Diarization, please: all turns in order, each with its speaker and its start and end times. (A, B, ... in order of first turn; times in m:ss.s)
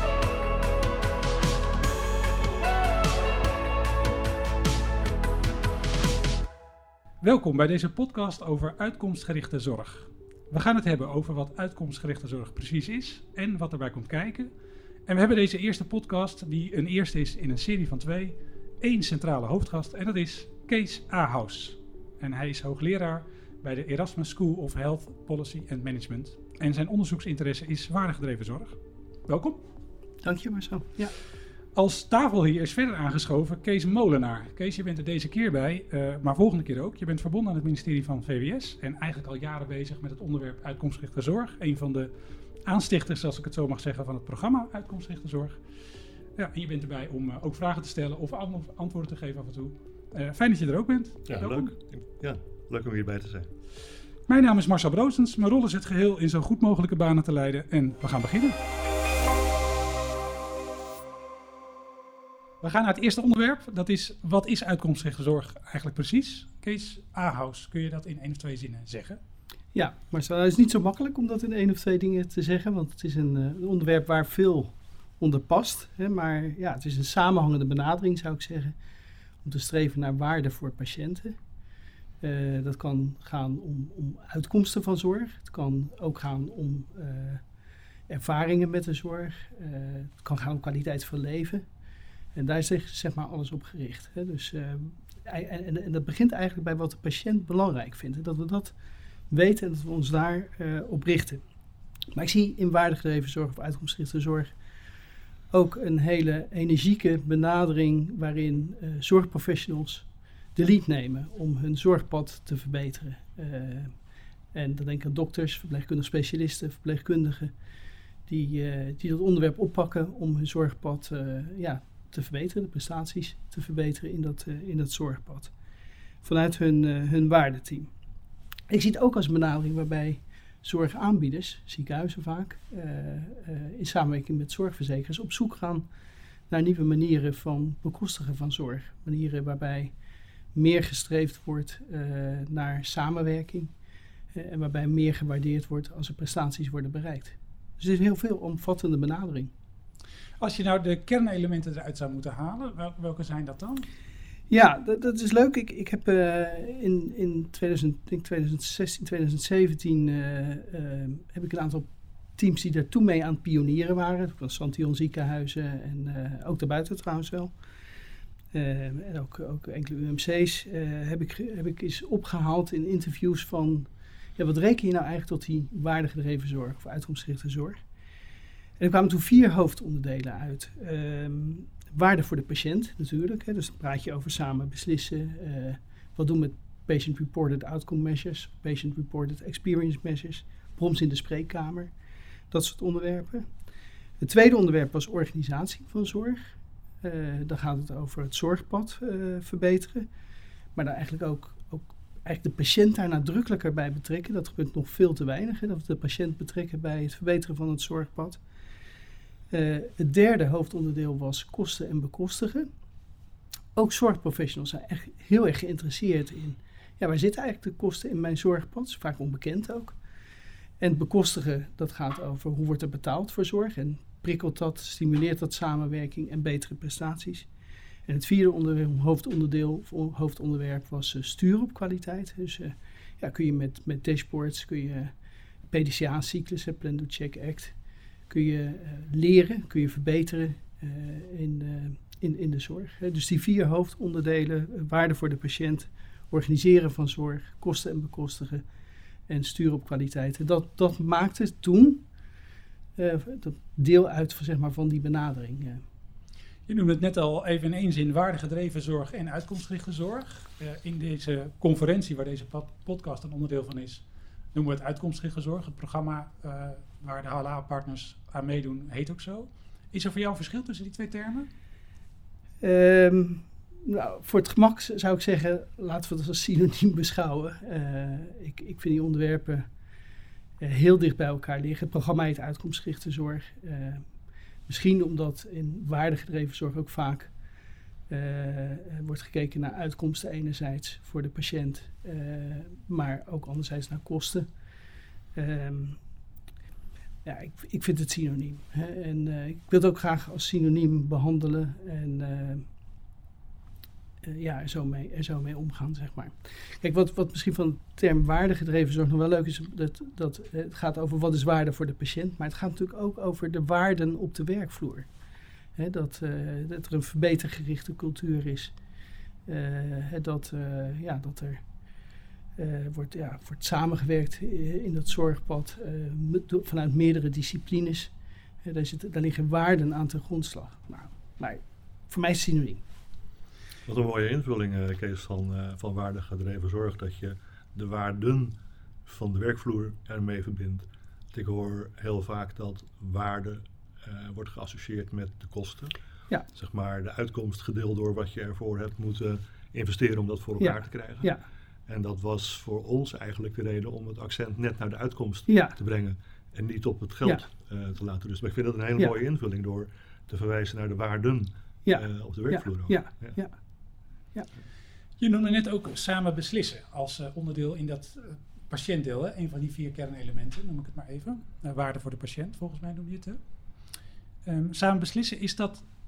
0:07.2-0:14.5 A
0:15.0-0:29.6 A
0:30.2-0:31.1 B
0:31.7-0:42.1 A
0:42.6-0:45.6 A
0:46.4-0:51.7 A
0:51.2-0:53.5 C
0:54.3-0:58.6 A
1:02.6-1:09.2 A
1:09.7-1:18.7 B
1:19.4-1:21.4 B
1:22.2-1:27.4 B
1:28.1-1:31.6 B
1:32.3-1:38.7 B
1:39.3-1:41.4 B
1:42.1-1:44.5 B
1:45.5-1:53.9 B
1:54.5-1:57.5 B
1:58.3-2:05.5 B
2:06.2-2:07.9 B
2:08.7-2:15.8 B
2:16.5-2:19.9 B
2:20.5-2:23.7 B
2:24.3-2:29.5 B
2:30.4-2:33.8 A
2:34.5-2:47.5 B
2:48.5-2:57.8 B
2:58.8-3:11.9 B
3:12.5-3:13.5 B
3:14.2-3:20.1 B
3:20.7-3:28.4 B
3:29.5-3:32.7 B
3:33.7-3:40.0 B
3:40.8-3:47.5 B
3:48.1-3:55.1 B
3:55.7-3:57.7 B
3:58.3-4:08.6 B
4:09.3-4:12.0 B
4:13.0-4:15.8 B
4:16.7-4:31.5 A
4:32.6-4:39.7 B
4:40.6-4:44.0 B
4:44.7-4:47.3 B
4:48.1-4:54.5 B
4:55.3-4:56.0 B
4:57.2-5:02.7 B
5:04.2-5:15.1 B
5:15.8-5:18.7 B
5:19.5-5:21.6 B
5:22.6-5:28.1 B
5:28.6-5:32.8 B
5:33.8-5:46.0 C
5:46.5-5:51.3 C
5:50.6-5:51.4 B
5:51.9-6:03.4 C
5:55.5-5:55.8 B
6:01.8-6:03.5 B
6:05.2-6:13.4 A
6:14.4-6:15.9 A